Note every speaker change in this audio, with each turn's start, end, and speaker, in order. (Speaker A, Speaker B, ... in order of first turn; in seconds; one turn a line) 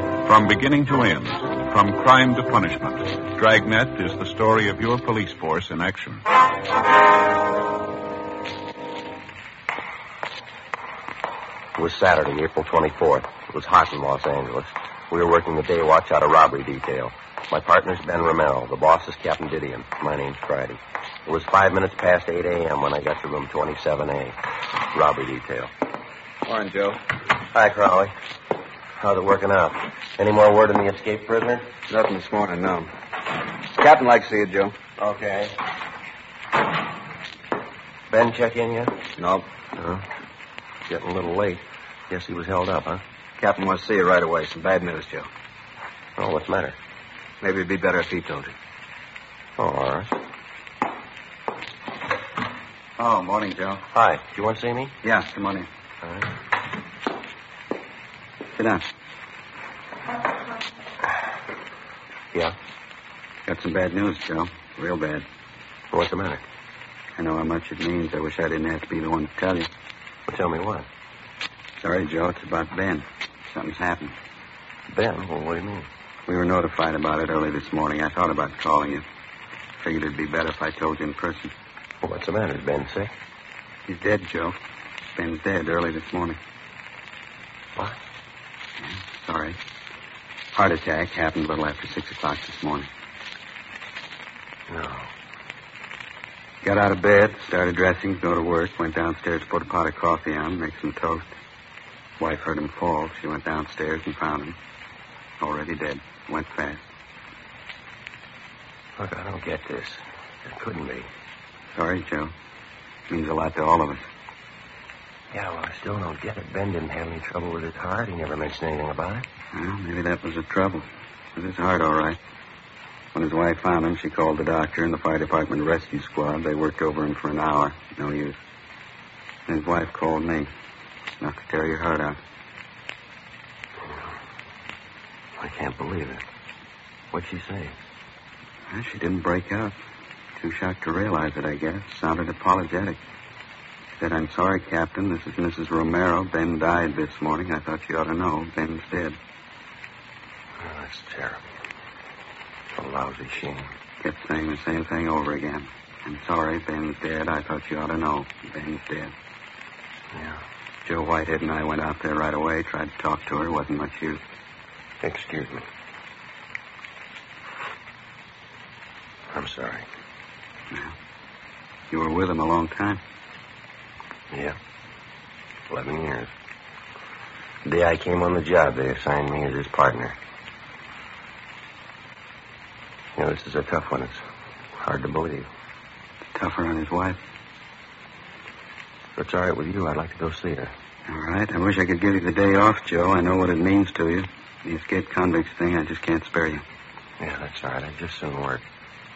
Speaker A: 0.2-6.2
Speaker B: 11.8-24.4
Speaker B: 24.9-25.7
Speaker C: 26.4-27.0
Speaker B: 27.5-28.1
Speaker B: 29.0-31.7
Speaker C: 31.9-32.9
Speaker C: 33.6-34.8
Speaker B: 35.0-35.6
Speaker B: 38.1-39.0
Speaker C: 39.2-39.5
Speaker B: 39.8-40.0
Speaker B: 40.9-43.0
Speaker C: 43.4-45.3
Speaker B: 46.2-46.8
Speaker C: 47.4-48.5
Speaker B: 49.6-50.1
Speaker C: 53.0-53.8
Speaker B: 53.9-55.0
Speaker C: 55.0-55.7
Speaker B: 56.0-56.3
Speaker C: 58.6-58.8
Speaker C: 63.5-65.2
Speaker B: 65.9-66.4
Speaker C: 67.2-69.7
Speaker B: 70.3-70.9
Speaker C: 71.8-74.1
Speaker B: 74.9-75.9
Speaker C: 76.3-79.0
Speaker C: 79.8-81.5
Speaker B: 82.0-83.1
Speaker C: 83.9-84.6
Speaker C: 85.2-86.4
Speaker C: 89.2-89.6
Speaker C: 90.5-92.9
Speaker B: 94.7-95.1
Speaker C: 96.6-101.3
Speaker C: 102.2-104.5
Speaker C: 105.4-106.8
Speaker B: 109.0-111.1
Speaker C: 111.7-112.3
Speaker C: 113.1-114.0
Speaker B: 115.3-119.2
Speaker C: 119.5-120.8
Speaker C: 121.3-122.2
Speaker C: 123.1-128.4
Speaker C: 129.5-130.5
Speaker C: 131.2-132.2
Speaker B: 135.4-136.2
Speaker B: 137.1-137.8
Speaker C: 138.7-139.7
Speaker C: 140.4-143.0
Speaker C: 144.0-149.2
Speaker B: 150.6-151.4
Speaker B: 152.7-153.7
Speaker C: 154.0-159.1
Speaker B: 160.1-160.4
Speaker C: 160.8-164.2
Speaker B: 165.0-165.7
Speaker B: 169.3-169.8
Speaker C: 171.9-173.0
Speaker B: 174.3-174.6
Speaker B: 175.7-176.3
Speaker B: 177.6-180.2
Speaker B: 183.2-184.2
Speaker B: 184.8-185.5
Speaker C: 186.3-187.2
Speaker B: 189.2-190.7
Speaker C: 191.1-196.6
Speaker B: 197.2-198.6